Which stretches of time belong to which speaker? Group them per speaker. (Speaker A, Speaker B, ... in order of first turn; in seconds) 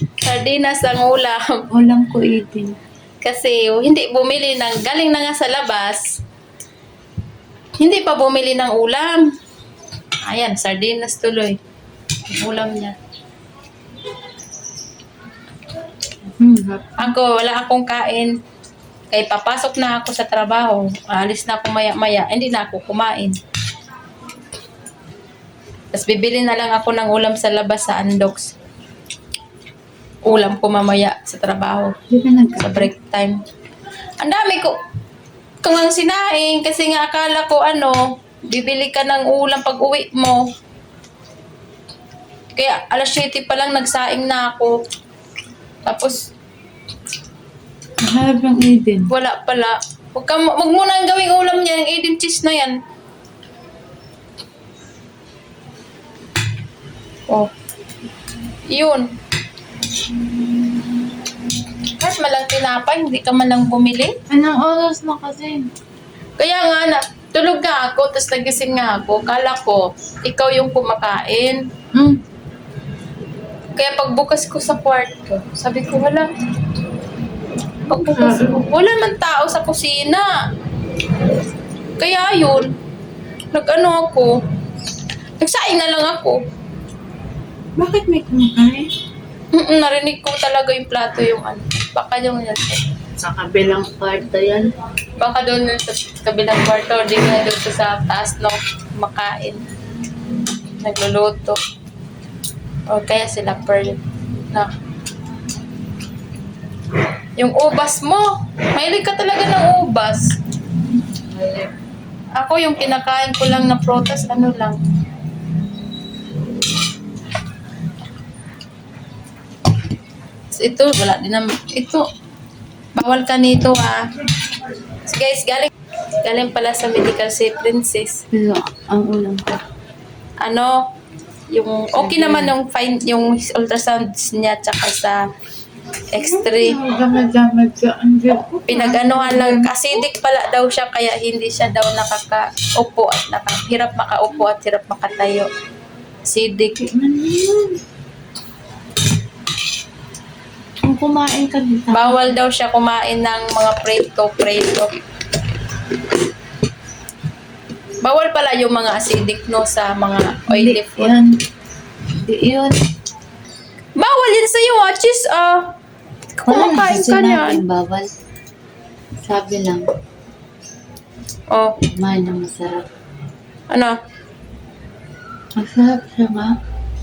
Speaker A: 0.2-1.4, 3.2-6.0, 7.8-9.2, 10.2-11.6, 12.3-12.9, 17.0-18.3, 19.1-23.4, 25.9-28.5, 30.2-31.9, 32.6-33.4, 34.2-34.7, 35.6-40.4, 42.5-44.7, 45.8-46.2, 49.1-52.8, 58.7-59.1, 62.0-64.1, 66.4-71.6, 73.8-76.3, 77.9-80.3, 82.0-82.8, 83.5-84.3, 85.4-86.4, 89.5-92.8, 95.2-99.6, 100.8-101.6, 102.9-104.0, 107.4-110.3, 112.4-114.8, 120.5-122.0, 123.0-124.0, 125.0-125.7, 126.2-128.2, 130.4-130.7, 131.5-135.2, 136.1-136.8, 138.7-145.5, 146.2-146.8, 151.9-154.9, 158.0-161.1, 164.0-165.7, 166.5-167.6, 173.7-173.9
Speaker B: 1.7-2.8, 16.4-17.1, 32.1-32.9, 48.0-49.1, 64.3-65.7, 71.9-72.2, 78.0-78.6, 87.8-88.9, 93.2-94.7, 111.3-111.7, 128.3-129.6, 131.9-132.5, 136.1-139.7, 146.8-147.8, 150.8-152.3, 160.5-161.4, 162.2-162.8, 166.4-168.1, 169.2-169.9, 171.9-172.8, 175.6-176.5